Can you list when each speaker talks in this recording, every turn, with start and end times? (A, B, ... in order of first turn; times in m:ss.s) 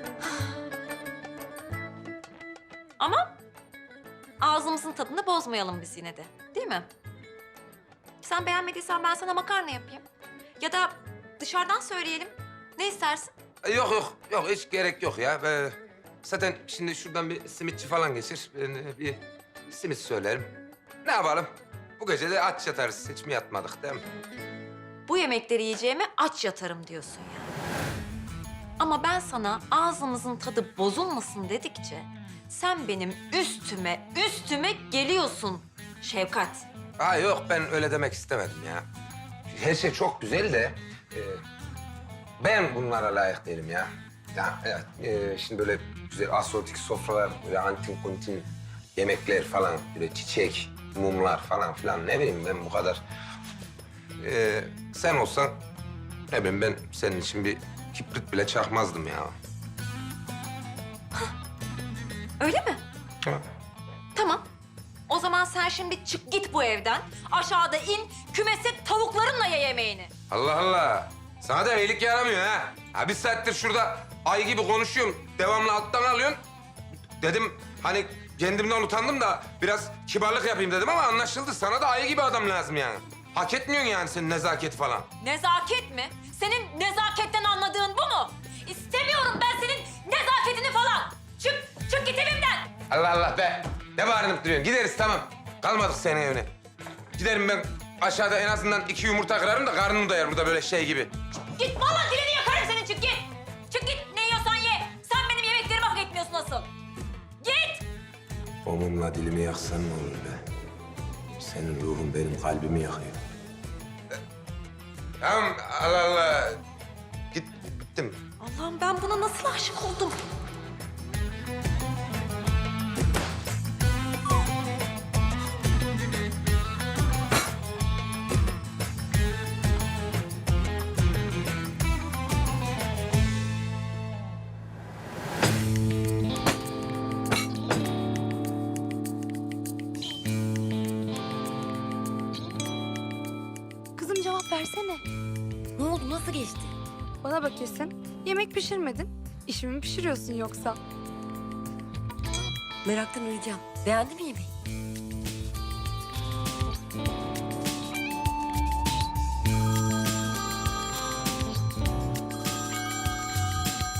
0:03.0-0:03.4 A
0:04.4-0:06.9 A
0:08.2-0:10.0 A
0:10.6-0:13.3 A
0:13.6-0:24.0 B
0:25.1-0:27.5 A
0:28.8-0:36.6 A
0:37.0-0:38.8 B
0:39.5-0:41.4 B
0:42.4-0:53.0 B
0:54.2-0:55.6 B
0:56.3-0:59.4 B
1:02.4-1:02.8 A
1:04.1-1:04.4 A
1:05.1-1:10.1 A
1:10.3-1:16.4 B
1:17.2-1:25.1 B
1:25.2-1:32.7 A
1:32.9-1:36.5 B
1:37.2-1:41.1 B
1:41.5-1:46.7 A
1:47.4-1:47.8 A
1:48.6-1:50.4 B
1:51.4-1:53.2 B
1:55.2-1:56.6 B
1:57.3-1:58.2 B
1:58.4-2:00.2 A
2:24.0-2:25.0 C
2:25.8-2:26.7 D
2:27.2-2:30.8 C
2:32.8-2:34.5 D